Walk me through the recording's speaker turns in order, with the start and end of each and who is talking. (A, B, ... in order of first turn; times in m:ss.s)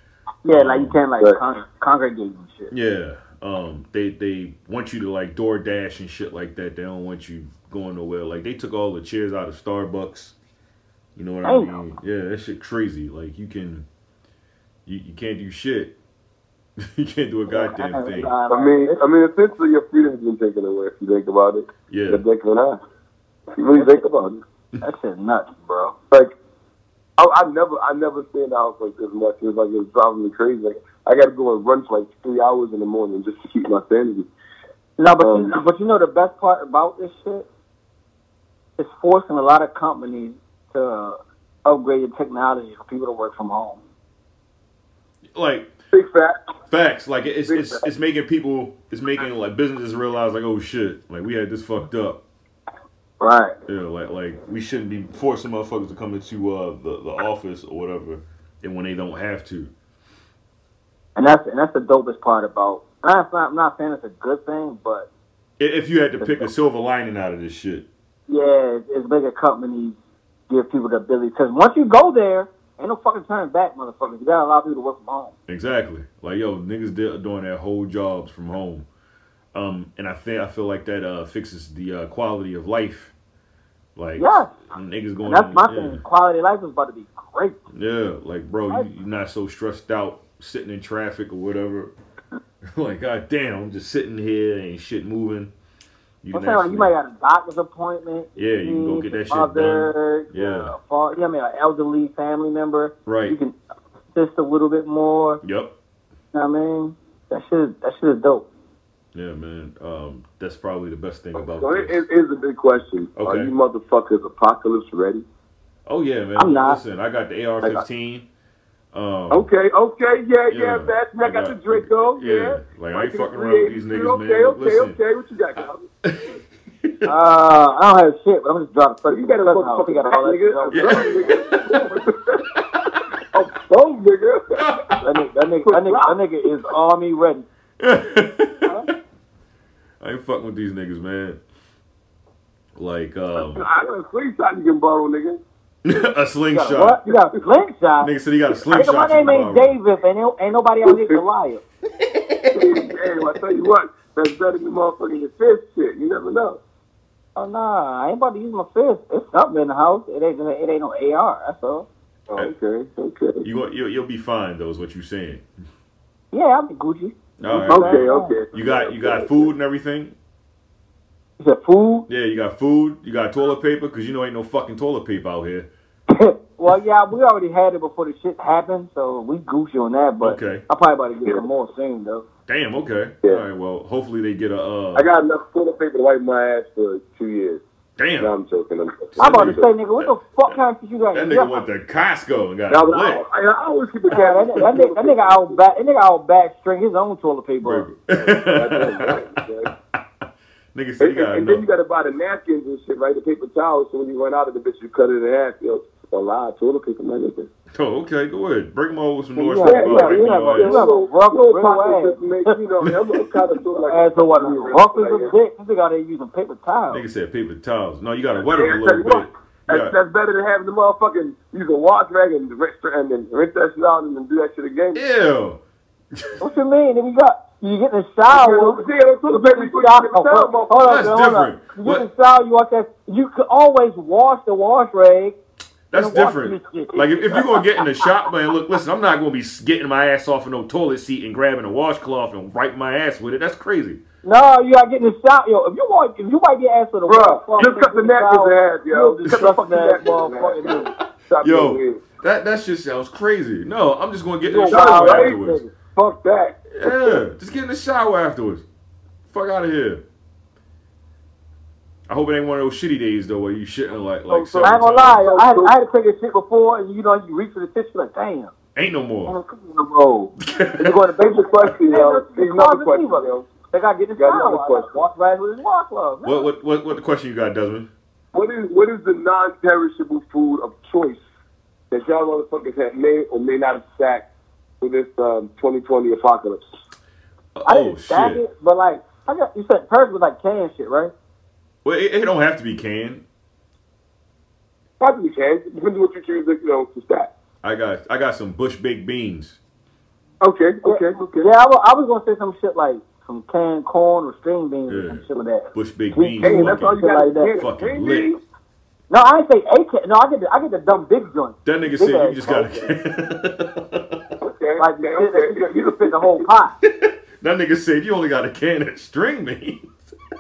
0:00.4-0:02.7 A
0:00.5-0:01.0 B
0:02.7-0:10.4 B
0:11.2-0:13.8 B
0:11.4-0:11.8 A
0:14.9-0:16.0 B
0:16.8-0:18.3 B
0:17.5-0:19.0 A
0:18.5-0:22.8 C
0:21.9-0:22.2 B
0:23.6-0:24.4 C
0:24.8-0:26.0 A
0:27.2-0:34.3 C
0:35.0-0:37.5 A
0:35.2-0:35.5 C
0:38.8-0:43.8 A
0:45.3-0:45.7 B
0:45.9-0:46.4 C
0:46.7-0:52.2 B
0:47.5-0:47.8 C
0:53.2-0:53.6 A
0:53.7-0:59.7 B
1:01.2-1:05.1 A
1:05.6-1:07.9 B
1:08.3-1:10.0 A
1:10.5-1:15.3 A
1:15.5-1:18.9 B
1:19.5-1:23.1 B
1:24.0-1:26.0 B
1:24.2-1:24.5 A
1:25.2-1:27.6 A
1:27.7-1:31.9 B
1:32.6-1:35.5 B
1:36.2-1:36.9 B
1:36.3-1:43.6 A
1:38.4-1:40.8 B
1:43.0-1:43.4 B
1:44.1-1:45.4 A
1:45.4-1:45.7 B
1:46.3-1:48.5 A
1:49.1-1:52.0 B
1:51.4-1:55.2 C
1:53.2-1:53.5 B
1:55.9-1:58.3 B
1:56.4-1:56.8 A
1:58.9-1:59.5 B
1:59.3-2:05.9 C
2:00.5-2:05.0 B
2:06.0-2:06.3 B
2:07.0-2:11.2 A
2:09.1-2:12.5 C
2:10.7-2:12.0 B
2:12.6-2:13.0 B
2:13.3-2:15.0 C
2:14.6-2:15.0 B
2:15.0-2:17.5 A
2:15.6-2:16.2 C
2:17.8-2:18.7 B
2:20.0-2:21.4 B
2:22.8-2:23.6 B
2:23.4-2:25.4 C
2:25.8-2:27.0 B
2:26.5-2:28.1 A
2:28.0-2:29.8 B
2:28.7-2:31.6 A
2:30.9-2:31.2 C
2:32.4-2:32.7 B
2:32.5-2:36.6 C
2:37.4-2:41.9 A
2:42.3-2:43.5 C
2:43.4-2:45.4 B
2:46.3-2:48.4 A
2:47.4-2:50.2 B
2:47.7-2:49.5 C
2:51.4-2:52.1 A
2:52.1-2:55.7 B
2:56.1-3:02.2 A
3:00.2-3:00.6 B
3:02.5-3:05.1 B
3:05.0-3:07.6 C
3:08.0-3:08.3 B
3:08.2-3:09.7 C
3:09.2-3:10.6 B
3:09.2-3:11.6 A
3:11.1-3:13.2 B
3:12.7-3:15.6 C
3:14.1-3:17.9 A
3:17.6-3:19.3 B
3:18.1-3:19.7 C
3:20.7-3:21.6 B
3:21.0-3:27.5 C
3:27.7-3:30.8 B
3:29.4-3:32.6 A
3:29.6-3:35.3 C
3:33.9-3:37.0 A
3:36.9-3:40.0 B
3:38.4-3:45.0 C
3:45.0-3:45.6 B
3:46.1-3:46.4 B
3:46.4-3:55.4 A
3:48.3-3:50.9 C
3:50.8-3:52.1 B
3:55.9-4:04.0 B
3:55.9-3:57.8 A
4:04.2-4:10.9 A
4:07.1-4:12.1 C
4:11.4-4:15.6 B
4:14.4-4:15.7 A
4:14.7-4:17.2 C
4:16.7-4:18.6 B
4:19.3-4:20.0 B
4:22.1-4:25.2 B
4:24.3-4:25.7 C
4:24.6-4:28.5 A
4:28.8-4:29.4 B
4:29.3-4:36.5 A
4:30.5-4:31.0 B
4:31.2-4:33.5 C
4:34.2-4:34.9 C
4:36.2-4:37.9 B
4:38.3-4:41.2 C
4:41.9-4:44.3 C
4:44.8-4:46.6 C
4:47.6-4:48.4 B
4:47.7-4:51.1 A
4:51.8-4:53.2 B
4:55.0-4:57.3 C
4:57.6-4:59.6 B
5:00.4-5:01.5 C
5:00.8-5:07.5 A
5:04.9-5:05.2 B
5:05.7-5:07.0 B
5:06.4-5:08.4 C
5:07.6-5:08.4 B
5:09.1-5:12.6 A
5:11.6-5:14.2 B
5:12.4-5:12.7 C
5:14.4-5:16.3 C
5:14.8-5:16.8 A
5:16.8-5:19.9 B